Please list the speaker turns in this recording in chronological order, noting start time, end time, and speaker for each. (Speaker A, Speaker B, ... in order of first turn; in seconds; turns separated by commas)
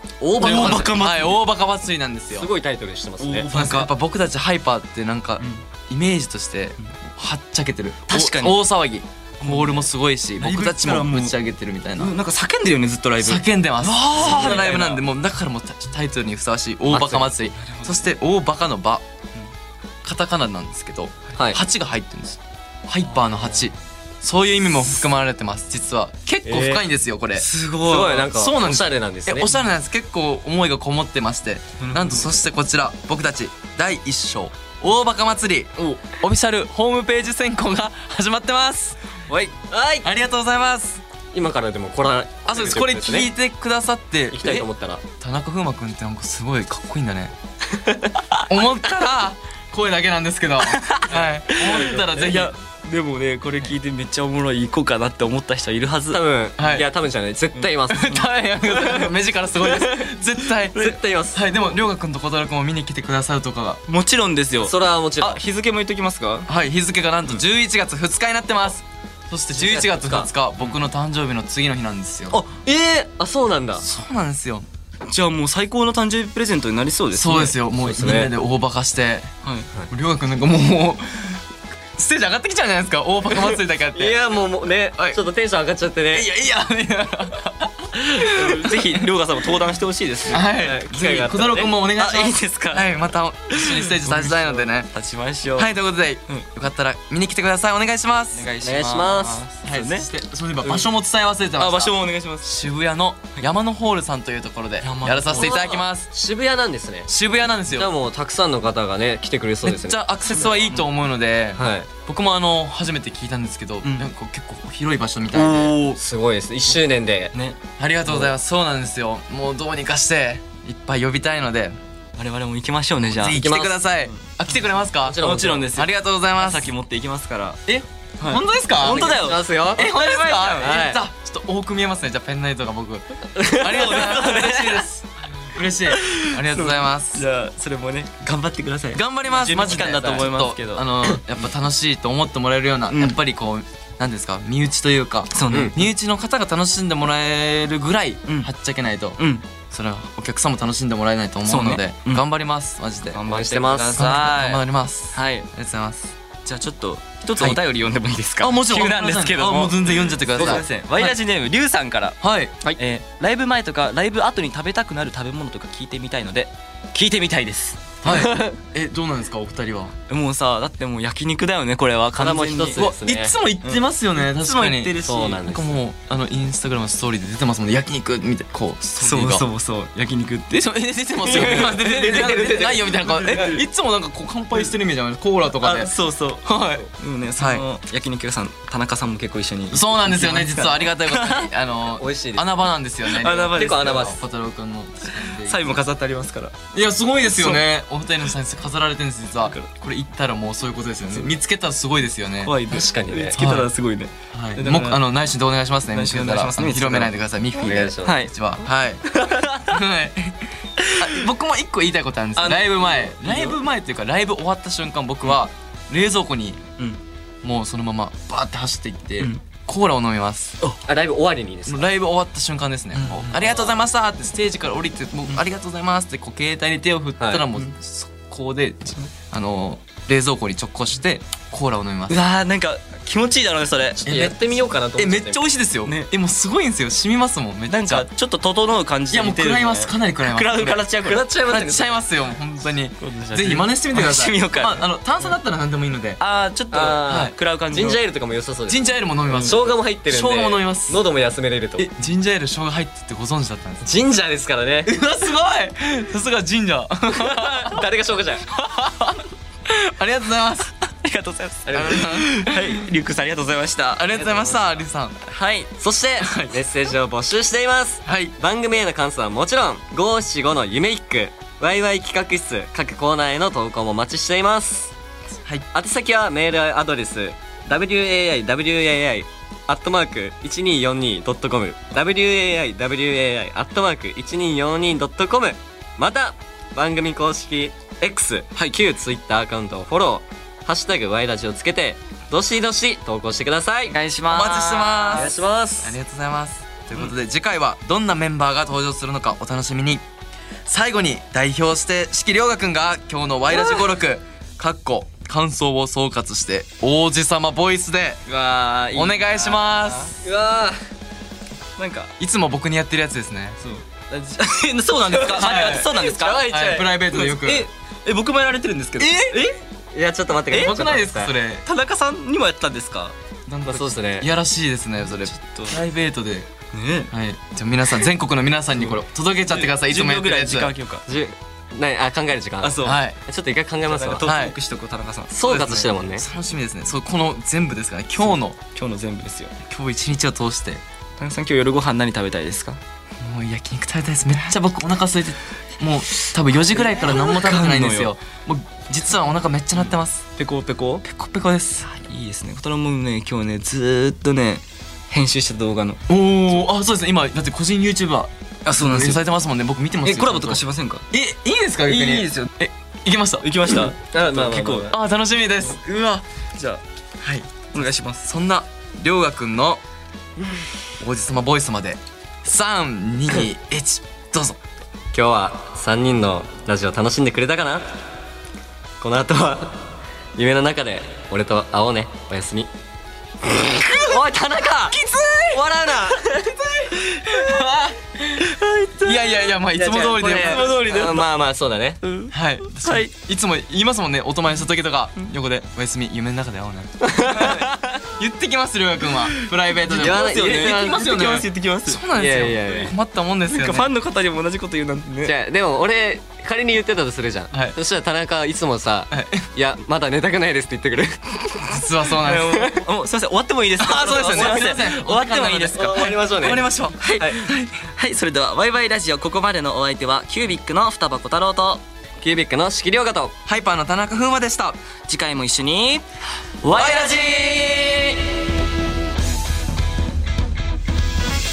Speaker A: 0.2-0.9, Speaker B: 0.4-1.4, Speaker C: 0.4-2.5, Speaker A: 2.3-3.5, Speaker B: 3.2-3.9, Speaker C: 3.5-12.2, Speaker B: 5.4-5.6, Speaker B: 8.1-8.6, Speaker B: 9.4-11.4, Speaker B: 12.0-15.0, Speaker C: 13.2-19.1, Speaker A: 16.9-17.2, Speaker B: 17.0-18.1, Speaker C: 20.0-27.5, Speaker B: 23.1-23.7, Speaker A: 26.4-26.9, Speaker B: 27.4-28.3, Speaker A: 27.9-29.5, Speaker C: 28.2-39.0, Speaker B: 31.8-32.3, Speaker B: 39.3-39.5, Speaker A: 39.7-40.1, Speaker C: 40.0-41.0, Speaker A: 41.3-43.3, Speaker C: 42.5-44.7, Speaker A: 44.3-45.0, Speaker C: 45.2-47.4, Speaker A: 47.8-48.1, Speaker C: 48.5-52.5, Speaker B: 50.6-56.2, Speaker A: 56.1-58.2, Speaker C: 56.6-56.9, Speaker C: 57.9-63.8, Speaker B: 58.1-59.1, Speaker B: 59.6-59.9, Speaker A: 60.8-61.4, Speaker B: 63.9-66.5, Speaker A: 64.6-65.4, Speaker C: 66.5-72.4, Speaker A: 69.5-70.3, Speaker A: 72.3-73.8, Speaker C: 73.8-74.7, Speaker B: 75.1-77.6, Speaker C: 77.1-79.3, Speaker A: 77.8-78.3, Speaker C: 79.9-81.5, Speaker C: 82.0-84.2, Speaker A: 83.9-86.3, Speaker C: 86.1-89.1, Speaker B: 88.1-90.4, Speaker C: 90.3-94.9, Speaker A: 90.6-91.7, Speaker B: 92.0-93.0, Speaker B: 93.5-95.8, Speaker C: 95.6-98.5, Speaker B: 98.3-100.1, Speaker A: 98.6-99.4, Speaker C: 99.7-106.1, Speaker B: 101.6-102.5, Speaker B: 104.8-105.6, Speaker A: 105.3-107.1, Speaker C: 107.1-107.9, Speaker A: 107.7-110.0, Speaker C: 109.6-115.8, Speaker B: 110.3-110.9, Speaker A: 111.6-111.9, Speaker B: 115.3-116.0, Speaker A: 116.0-117.3, Speaker B: 117.3-117.6, Speaker C: 117.8-121.8, Speaker B: 122.2-123.4, Speaker C: 123.2-126.7, Speaker A: 123.3-123.8, Speaker B: 124.0-124.3, Speaker A: 125.0-125.7, Speaker B: 125.2-127.6, Speaker C: 127.7-137.2, Speaker B: 128.2-129.4, Speaker A: 129.2-130.0, Speaker B: 130.0-130.8, Speaker A: 130.6-131.0, Speaker A: 133.4-133.7, Speaker B: 133.6-134.9, Speaker B: 135.9-141.0, Speaker C: 138.9-153.2, Speaker B: 142.9-143.2, Speaker B: 145.3-145.9, Speaker B: 148.3-148.5, Speaker B: 149.2-149.5, Speaker B: 151.5-152.2, Speaker B: 153.1-155.5, Speaker A: 153.3-154.1, Speaker C: 154.0-156.1, Speaker B: 156.4-162.2, Speaker C: 158.4-161.2, Speaker C: 162.2-162.6, Speaker B: 162.8-166.5, Speaker A: 166.9-168.6, Speaker B: 167.1-167.7, Speaker C: 168.0-169.9, Speaker B: 170.1-172.8, Speaker A: 172.2-173.3, Speaker C: 172.8-179.4, Speaker B: 173.6-175.4, Speaker A: 175.0-175.8, Speaker B: 179.0-180.6, Speaker C: 180.5-185.9, Speaker B: 181.2-183.6, Speaker A: 181.4-182.8, Speaker B: 185.6-191.5, Speaker C: 186.4-186.8, Speaker C: 187.4-187.6, Speaker C: 189.7-195.6, Speaker A: 192.0-192.5, Speaker B: 193.1-194.1, Speaker A: 193.6-194.2, Speaker B: 195.3-196.6, Speaker C: 196.7-202.6, Speaker B: 197.3-197.7, Speaker B: 199.4-199.7, Speaker B: 202.4-205.0, Speaker A: 202.7-203.3, Speaker C: 203.3-203.7, Speaker C: 204.3-216.7, Speaker B: 205.9-207.1, Speaker A: 207.6-208.1, Speaker B: 208.0-208.3, Speaker B: 209.1-209.8, Speaker B: 210.8-211.2, Speaker B: 212.4-213.6, Speaker C: 217.4-220.6, Speaker A: 220.9-221.9, Speaker C: 221.7-232.2, Speaker B: 222.9-223.4, Speaker A: 223.3-223.7, Speaker A: 227.2-227.4, Speaker B: 232.1-234.0, Speaker A: 234.0-235.4, Speaker C: 234.1-234.4, Speaker C: 235.0-238.1, Speaker B: 237.7-241.3, Speaker C: 239.1-240.8, Speaker A: 241.0-241.9, Speaker C: 241.4-246.2, Speaker B: 243.0-244.9, Speaker B: 246.2-248.0, Speaker A: 246.7-248.8, Speaker C: 247.1-247.3, Speaker C: 248.7-251.0, Speaker B: 249.3-249.6, Speaker A: 249.4-251.9, Speaker C: 251.8-253.9, Speaker A: 253.8-254.9, Speaker C: 254.8-257.8, Speaker A: 257.3-258.4, Speaker C: 258.6-260.7, Speaker B: 261.0-264.1, Speaker A: 261.7-262.0, Speaker C: 261.7-262.8, Speaker C: 264.0-265.3, Speaker A: 264.1-264.7, Speaker B: 265.3-265.7, Speaker A: 265.8-274.9, Speaker C: 266.2-266.6, Speaker C: 268.1-268.4, Speaker A: 275.7-293.9, Speaker B: 293.9-295.4, Speaker C: 294.3-300.0, Speaker A: 295.1-296.0, Speaker C: 300.7-308.2, Speaker B: 308.3-310.1, Speaker C: 308.9-310.2, Speaker A: 310.2-310.8, Speaker B: 311.8-312.1, Speaker C: 312.2-313.6, Speaker B: 313.6-319.6, Speaker C: 315.1-317.7, Speaker A: 315.4-316.8, Speaker C: 319.0-319.4, Speaker A: 319.9-321.3, Speaker B: 320.5-320.8, Speaker C: 320.5-321.7, Speaker B: 321.7-323.1, Speaker C: 323.5-326.5, Speaker A: 323.7-324.3, Speaker B: 325.2-325.8, Speaker B: 326.7-327.1, Speaker C: 327.1-330.7, Speaker B: 328.9-331.0, Speaker A: 331.1-334.3, Speaker B: 332.6-333.0, Speaker C: 332.8-333.2, Speaker B: 333.9-335.9, Speaker C: 334.2-334.6, Speaker A: 335.3-336.3, Speaker C: 335.5-338.6, Speaker B: 338.3-339.6, Speaker C: 339.7-340.8, Speaker B: 341.2-342.8, Speaker C: 343.2-350.3, Speaker B: 346.7-348.1, Speaker B: 350.4-351.0, Speaker C: 351.0-351.9, Speaker B: 352.0-356.0, Speaker C: 356.1-363.9, Speaker B: 358.7-359.2, Speaker B: 360.0-361.1, Speaker B: 361.9-362.5, Speaker B: 363.4-365.0, Speaker A: 364.1-364.9, Speaker C: 364.9-366.2, Speaker B: 365.7-366.8, Speaker C: 367.2-369.8, Speaker B: 367.7-368.2, Speaker C: 371.0-374.6, Speaker A: 375.1-377.9, Speaker A: 379.0-382.7, Speaker A: 383.4-385.0, Speaker C: 384.9-385.6, Speaker A: 385.5-386.2, Speaker B: 386.1-387.2, Speaker C: 387.0-388.5, Speaker B: 388.4-389.3, Speaker C: 389.0-390.8, Speaker A: 389.8-392.0, Speaker B: 390.2-391.3, Speaker B: 392.0-393.1, Speaker C: 392.3-397.6, Speaker A: 397.0-397.6, Speaker B: 397.3-398.0, Speaker C: 398.2-403.9, Speaker B: 399.4-402.0, Speaker A: 399.9-401.3, Speaker A: 402.2-402.9, Speaker B: 403.5-405.3, Speaker A: 405.2-411.6, Speaker C: 407.5-407.8, Speaker C: 409.1-409.4, Speaker C: 411.7-412.7, Speaker B: 412.1-416.1, Speaker C: 413.8-417.8, Speaker A: 415.8-416.7, Speaker B: 417.0-421.8, Speaker A: 422.2-423.4, Speaker C: 423.5-424.8, Speaker B: 425.1-426.0, Speaker B: 426.6-427.2, Speaker C: 426.6-428.2